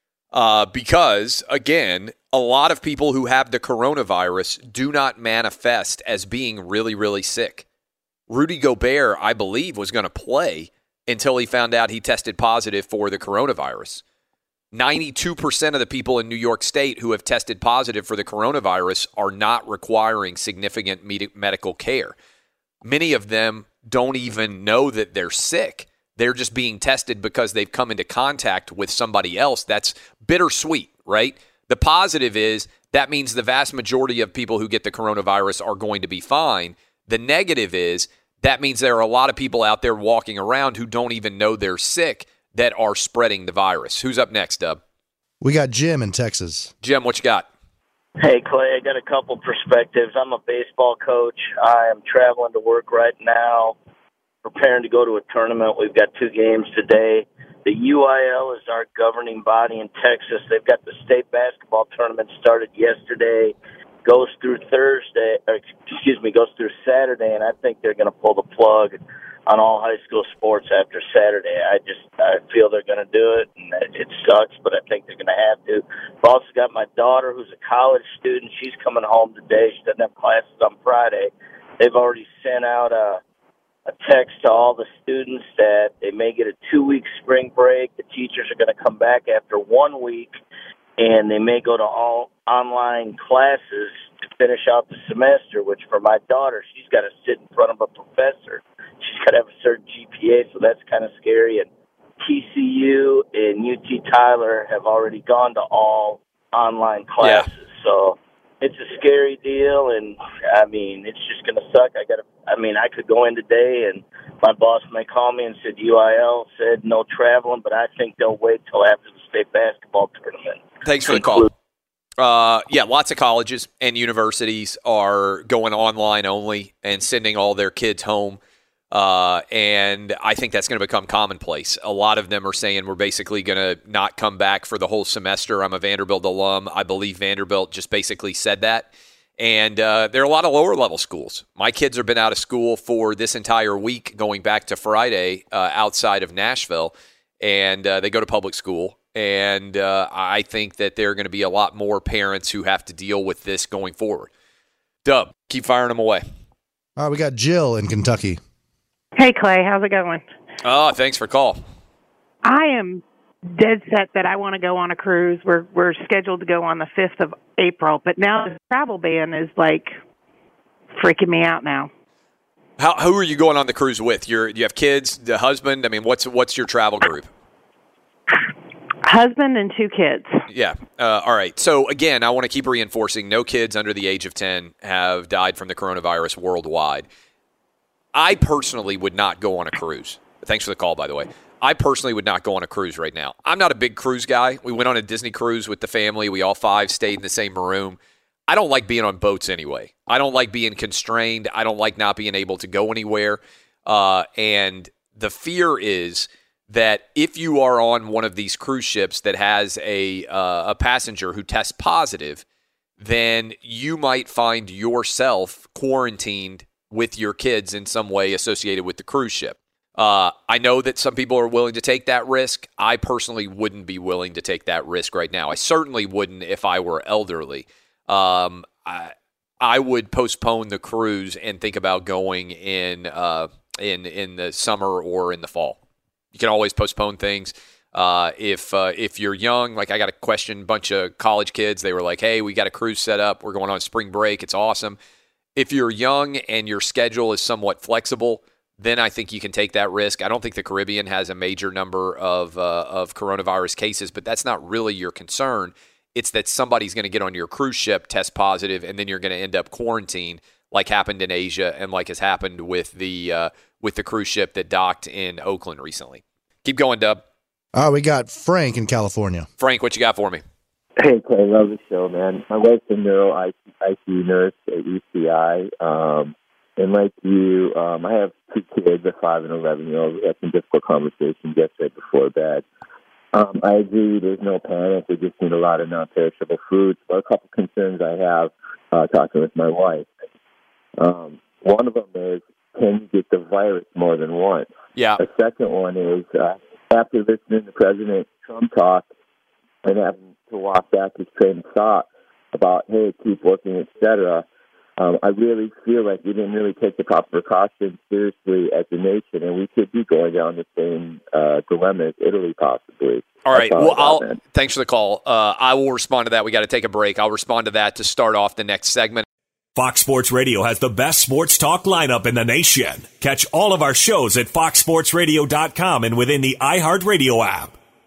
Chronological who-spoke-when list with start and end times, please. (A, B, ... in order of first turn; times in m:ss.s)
0:00.3-0:07.6 A
0:08.3-0:14.0 A
0:14.7-0:22.2 A
0:22.8-0:44.8 A
0:45.4-0:46.7 B
0:46.8-0:47.5 A
0:48.2-0:53.8 C
0:54.4-1:23.2 C
1:23.9-1:30.4 C
1:31.0-1:41.7 C
1:42.2-2:01.5 C
1:47.2-1:47.5 A
2:00.8-2:01.5 A
2:02.2-2:08.4 A
2:08.9-2:34.3 A
2:35.0-2:36.2 A
2:37.0-2:38.4 B
2:39.2-2:40.2 D
2:40.6-2:41.6 A
2:42.4-2:50.0 D
2:51.0-2:51.9 D
2:52.8-2:57.3 A
2:59.0-3:00.4 D
3:00.5-3:07.1 A
3:08.1-3:32.4 A
3:33.0-3:55.8 A
3:56.3-4:05.0 A
4:05.6-4:27.2 A
4:27.7-4:29.5 B
4:29.6-4:30.4 A
4:31.0-4:42.7 E
4:43.3-4:50.1 E
4:51.0-4:59.1 E
4:55.0-4:55.2 A
4:59.8-5:04.4 E
5:05.0-5:14.4 E
5:13.4-5:19.3 A
5:19.8-5:27.8 F